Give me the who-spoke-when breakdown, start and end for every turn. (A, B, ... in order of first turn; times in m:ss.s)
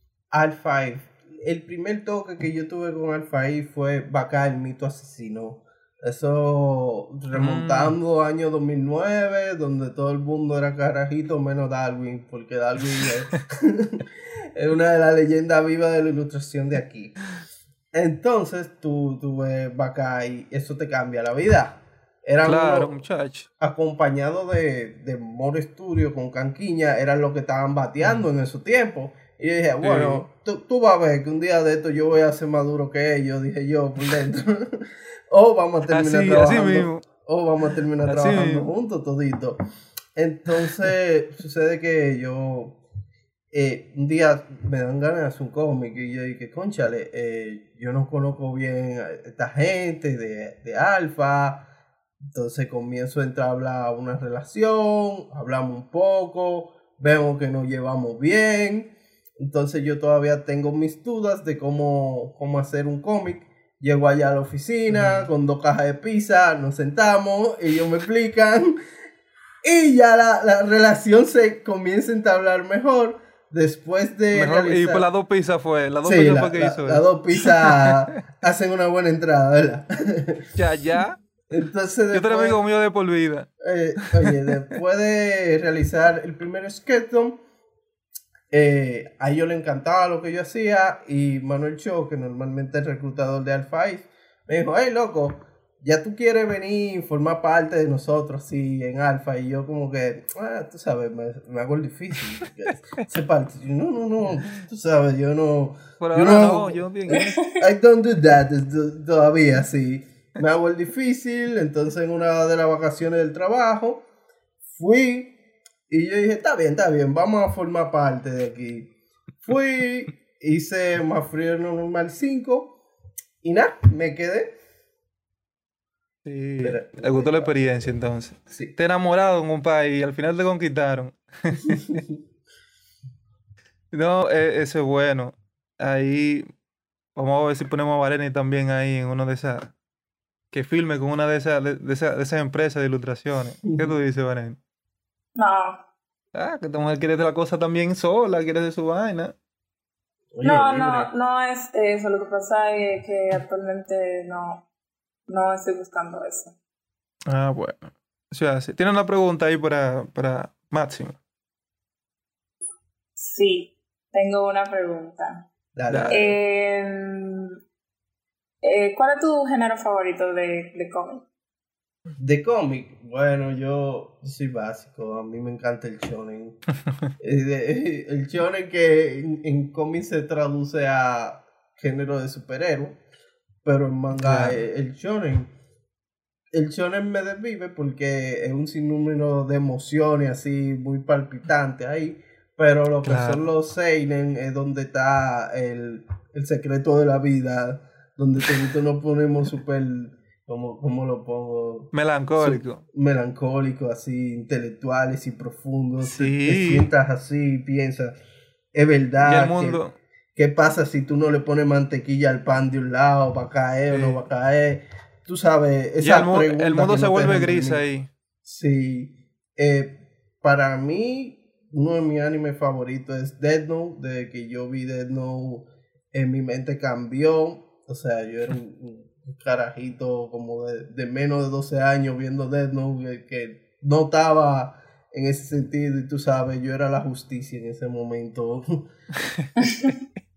0:00.3-0:17.2 A
0:07.4-0:08.0 B
0:17.9-0:22.9 A
0:22.4-0:23.5 B
0:23.6-0:39.6 A
0:29.8-0:30.2 B
0:35.9-0:37.0 B
0:38.0-0:38.7 B
0:40.2-0:42.8 A
0:40.6-0:40.9 B
0:43.5-0:51.7 A
0:52.3-1:08.8 A
1:04.9-1:05.3 B
1:09.6-1:15.1 A
1:14.3-1:17.9 B
1:16.0-1:20.5 A
1:20.6-1:21.2 B
1:21.5-1:22.6 A
1:22.1-1:23.5 B
1:23.6-1:27.4 A
1:28.5-1:54.0 A
1:46.0-1:47.4 B
1:47.1-1:47.4 C
1:54.7-1:55.4 A
1:55.9-1:58.9 A
1:59.4-2:02.8 A
2:03.4-2:04.5 A
2:06.2-2:12.0 B
2:06.6-2:08.8 A
2:11.7-2:12.1 A
2:13.9-2:16.5 B
2:17.2-2:19.7 B
2:20.5-2:24.6 B
2:23.6-2:23.9 A
2:25.4-2:25.8 C
2:26.4-2:29.3 B
2:30.4-2:31.1 A
2:30.4-2:34.6 C
2:35.3-2:36.5 C
2:37.3-2:41.2 B
2:43.2-2:45.4 C
2:45.8-2:46.4 A
2:45.9-2:46.2 B
2:46.1-2:47.6 C
2:48.6-2:51.2 C
2:52.2-2:56.6 A
2:57.2-3:03.0 A
3:03.6-3:05.5 A
3:04.2-3:04.6 B
3:06.5-3:28.2 A
3:13.0-3:13.4 B
3:21.9-3:22.8 B
3:26.0-3:26.9 B
3:28.7-3:29.8 A
3:29.2-3:30.0 B
3:30.4-3:37.8 A
3:33.9-3:34.2 B
3:36.0-3:38.1 B
3:38.4-3:58.9 A
3:59.6-4:00.0 C